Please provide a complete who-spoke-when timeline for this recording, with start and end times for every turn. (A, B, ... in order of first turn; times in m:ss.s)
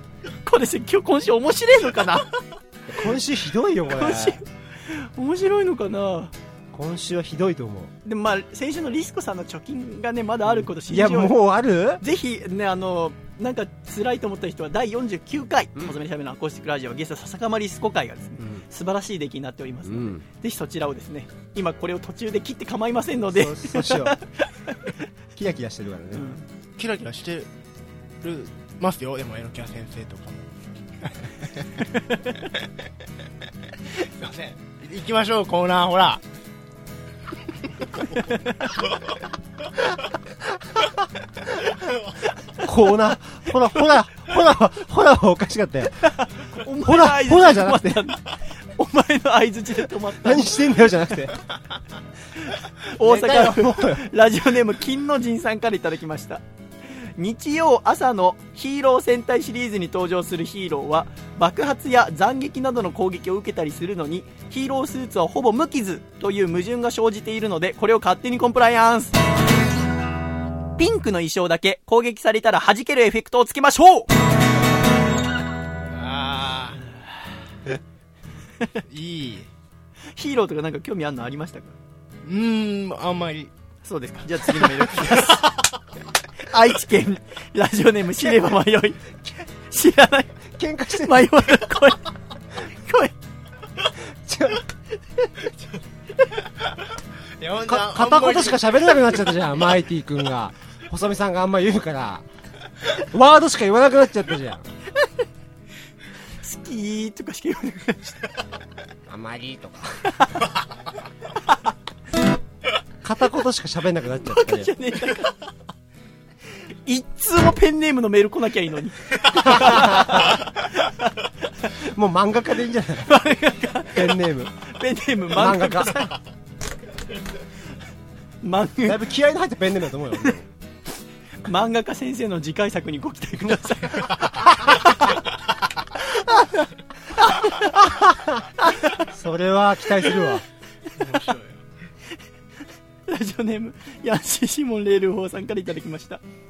0:00.4-0:02.3 A
0:02.9-0:04.4 B
0:03.9-0:06.3 A
0:06.7-0:07.9 B
0:08.0-0:11.4 A
0:10.6-0:12.0 B
0:12.0-0:24.5 A
0:18.4-0:18.6 B
0:19.8-0:20.2 B
0:23.3-0:24.2 B
0:25.4-0:26.4 B
0:26.1-0:26.4 A
0:26.8-0:27.5 C
0:28.2-0:30.5 C
0:31.0-0:31.7 C
0:34.0-0:36.2 C
0:42.6-0:46.0 B
0:46.0-0:50.6 A
0:46.8-0:48.0 B
0:50.2-0:51.4 B
0:52.8-0:56.4 A
0:53.0-0:54.1 B
0:57.2-1:09.2 A
1:10.8-1:14.1 A
1:15.9-1:16.8 C
1:18.9-1:19.5 C
1:20.2-1:21.8 A
1:22.2-1:23.5 C
1:23.8-1:25.5 A
1:26.5-1:29.2 A
1:29.7-1:30.4 A
1:30.6-1:31.3 B
1:31.0-1:32.1 A
1:32.6-1:33.1 A
1:34.2-1:34.6 B
1:37.4-1:39.0 C
1:37.7-1:42.2 B
1:43.1-1:44.7 B
1:46.4-1:48.2 A
1:49.1-1:50.2 B
1:53.0-1:54.7 B
1:54.3-1:55.4 A
1:56.9-2:01.0 A
1:59.4-2:00.3 B
2:01.9-2:03.2 B
2:03.1-2:04.2 A
2:03.9-2:04.5 B
2:04.7-2:06.2 A
2:05.3-2:05.9 B
2:08.4-2:09.0 A
2:08.8-2:10.5 B
2:11.4-2:14.7 A
2:17.2-2:17.6 A
2:17.8-2:18.4 B
2:19.1-2:20.4 B
2:21.0-2:21.6 C
2:23.1-2:26.2 A